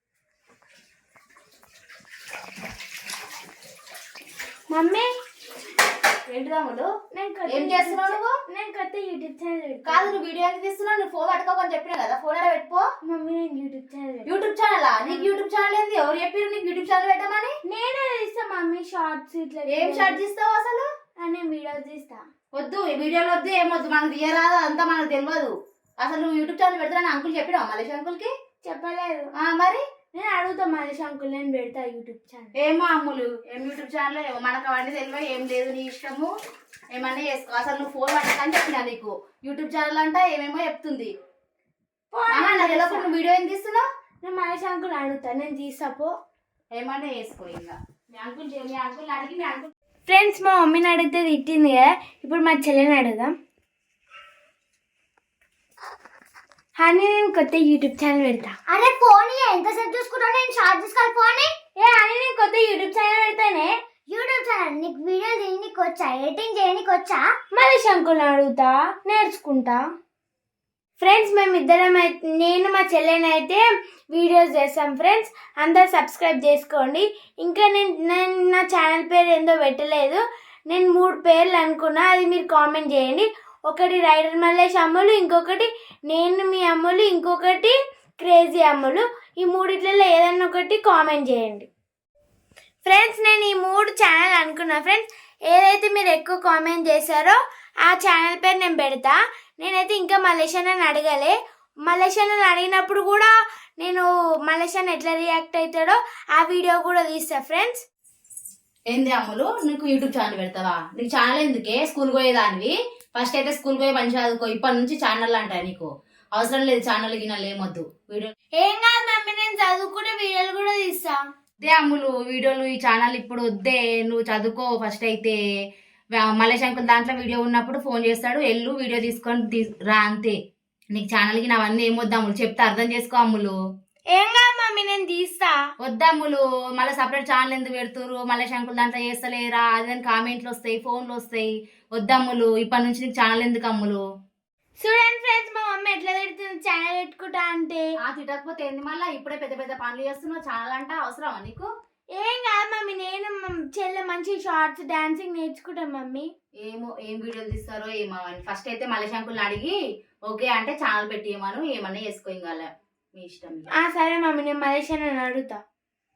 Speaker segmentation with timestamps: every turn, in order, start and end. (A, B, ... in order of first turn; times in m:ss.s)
0:04.7-0:05.1 A
0:06.3-0:06.9 B
0:07.1-0:10.2 A
0:07.5-0:08.4 B
0:09.8-0:12.8 B
0:13.0-0:14.3 A
0:14.2-0:17.5 B
0:17.7-0:20.2 A
0:19.7-0:20.9 B
0:21.2-0:22.2 A
0:22.5-0:28.3 B
0:28.6-0:29.3 A
0:29.4-0:29.8 B
0:30.1-0:32.5 A
0:32.5-0:36.3 B
0:36.9-0:41.1 B
0:42.1-0:43.1 A
0:42.3-0:43.8 B
0:44.2-0:46.1 A
0:46.8-0:49.7 B
0:50.1-0:53.3 A
0:56.8-0:58.6 A
0:58.7-1:01.5 C
1:01.8-1:03.8 A
1:04.1-1:07.3 C
1:07.5-1:09.8 A
1:11.0-1:31.7 A
1:32.8-1:47.8 A
1:48.9-1:58.3 B
1:58.6-2:01.2 A
2:01.6-2:05.4 B
2:06.1-2:10.4 B
2:10.9-2:13.5 B
2:14.1-2:15.6 A
2:15.8-2:24.0 B
2:24.8-2:27.9 A
2:28.0-2:31.7 B
2:32.2-2:36.3 A
2:36.6-2:39.7 B
2:40.3-2:43.7 B
2:43.7-2:45.6 A